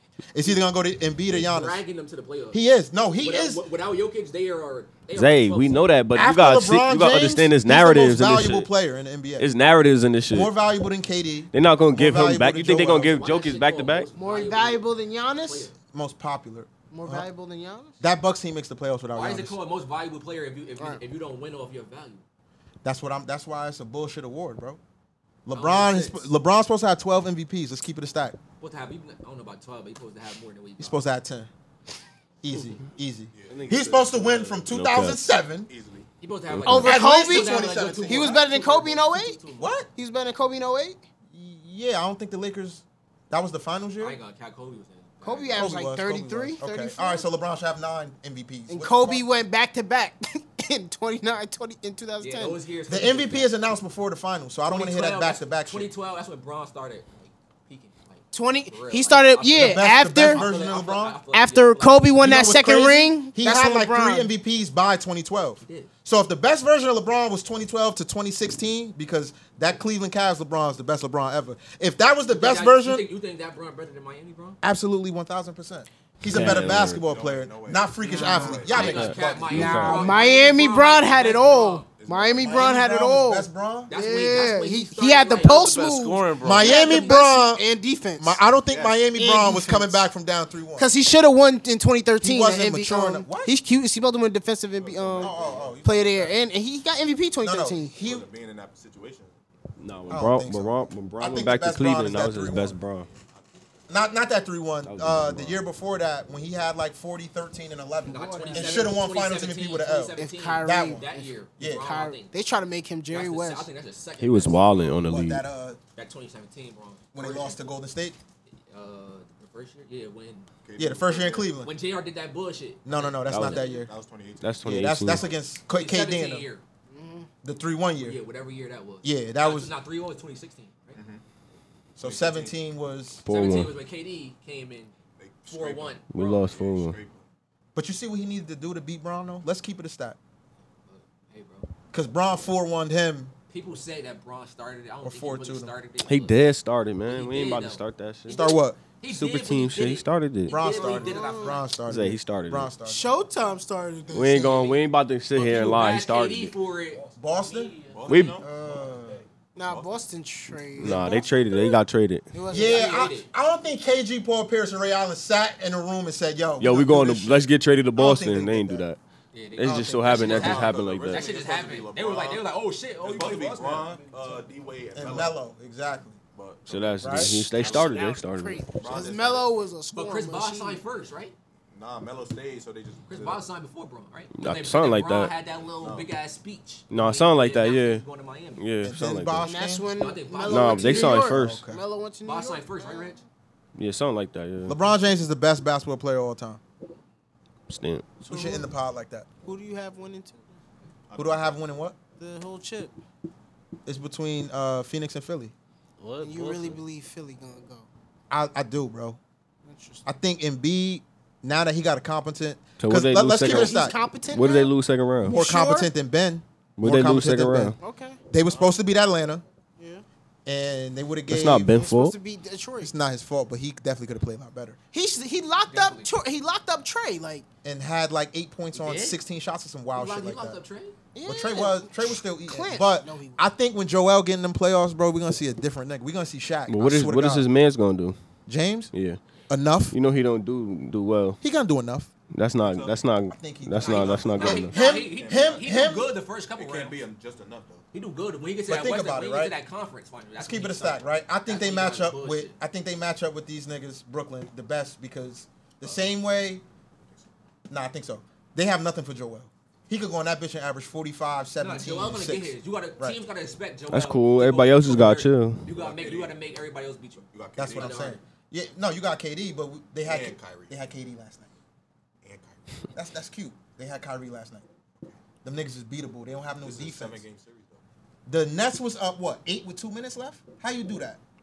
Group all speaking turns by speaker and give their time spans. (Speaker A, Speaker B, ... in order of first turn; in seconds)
Speaker A: 0.3-1.8, 2.5-3.6, 6.1-9.5, 10.3-13.2, 15.9-17.3, 18.0-19.6, 22.8-24.8, 25.5-28.4, 30.8-31.5, 32.4-35.7, 36.7-38.4, 39.6-39.9, 41.3-44.2, 45.5-49.2, 52.9-55.9, 59.6-61.2, 62.2-73.1, 74.6-79.9, 82.4-83.9, 86.4-87.6, 88.2-90.9, 92.2-93.6, 95.2-96.4, 97.4-98.3, 100.1-102.8, 103.9-111.0, 111.6-111.9, 115.0-115.8, 117.1-118.2, 120.8-121.7, 122.8-123.9, 124.6-126.5, 127.4-128.2, 129.0-129.7, 132.0-133.2, 137.8-140.2, 141.9-143.3, 145.0-145.7, 148.3-148.8, 150.5-153.1, 157.2-157.8, 158.4-159.2, 162.5-168.9, 169.6-170.7, 174.9-176.2, 177.0-177.5, 188.8-189.9, 191.1-191.8, 194.7-196.6, 198.3-199.3, 201.2-202.0, 203.9-205.5, 208.3-209.2, 210.1-214.0, 215.2-217.8, 218.3-219.4, 220.5-221.8, 222.8-224.8, 227.6-230.6, 231.3-237.5, 238.5-238.9, 239.5-240.0, 241.4-242.1, 243.3-246.1, 248.7-249.6, 250.4-256.6, 257.7-263.2, 267.6-271.5, 272.9-274.6, 275.4-277.2, 278.3-281.2
Speaker B: 1.3-2.6, 3.2-6.0, 12.9-15.8, 19.1-22.2, 25.5-26.3, 28.6-31.0, 36.2-39.8, 44.0-45.7, 52.2-53.5, 54.7-62.4, 65.6-65.9, 72.3-74.6, 78.3-81.9, 83.9-85.8, 108.1-112.3, 113.1-115.0, 115.9-117.6, 118.7-120.5, 121.6-123.8, 125.7-126.6, 128.0-131.0, 133.3-134.9, 135.5-136.1, 140.9-141.7, 143.5-146.4, 147.1-151.8, 155.3-158.1, 162.5-163.3, 169.3-174.1, 179.9-181.3, 183.1-188.7, 189.9-191.2, 192.2-193.2, 225.7-226.1, 228.7-229.2, 229.9-231.0, 243.8-247.0, 247.9-252.6, 261.6-268.2
Speaker C: 5.1-8.7, 9.4-10.5, 11.5-14.1, 33.5-35.2, 36.5-36.9, 76.3-77.0, 78.7-80.1, 99.8-103.1, 104.8-105.6, 114.2-115.4, 123.3-123.6, 124.4-125.3, 133.3-133.8, 136.1-137.0, 146.0-148.5, 149.1-150.6, 151.9-152.7, 154.1-156.6, 158.1-158.4, 160.8-162.3, 166.6-169.0, 169.6-171.3, 176.7-178.7, 184.3-185.3, 186.9-188.1, 188.6-189.5, 190.5-191.6, 193.8-194.8, 197.7-198.1, 212.8-215.4, 216.8-217.8, 221.3-222.2, 236.7-238.2, 238.9-239.2, 239.9-241.4, 242.3-244.8, 263.9-265.7
Speaker D: 14.2-15.7, 16.9-18.0, 20.8-21.0, 36.6-39.4, 39.9-41.0, 45.2-47.3, 48.7-52.6, 58.3-60.5, 61.3-64.3, 78.0-78.7, 79.5-88.4, 89.2-90.0, 90.8-98.0, 108.1-109.0, 110.2-113.7, 126.9-127.3, 150.8-151.6, 152.8-154.7, 159.6-161.8, 162.3-163.1, 177.5-180.8, 189.4-193.2, 198.2-198.7, 199.4-200.6, 202.2-202.9, 206.2-207.9, 209.7-210.1, 213.4-214.7, 215.3-215.9, 217.8-218.2, 219.8-220.0, 221.7-222.9, 224.9-227.4, 231.2-233.4
Speaker E: 33.3-34.7, 35.7-36.1, 76.4-79.3, 81.9-82.8, 88.7-89.0, 94.7-95.8, 97.9-99.3, 102.6-104.0, 120.6-121.6, 123.6-125.3, 130.9-131.2, 132.0-132.6, 135.2-137.3, 157.8-160.1, 170.1-172.5, 173.0-175.4, 176.3-178.0, 178.7-179.5, 181.7-183.4, 185.8-186.1, 201.1-201.6, 242.6-243.2, 243.9-247.9, 255.8-256.1, 265.7-266.6, 267.3-268.2, 270.0-270.9, 272.2-272.9, 276.6-277.8
Speaker F: 85.4-86.9, 206.0-206.8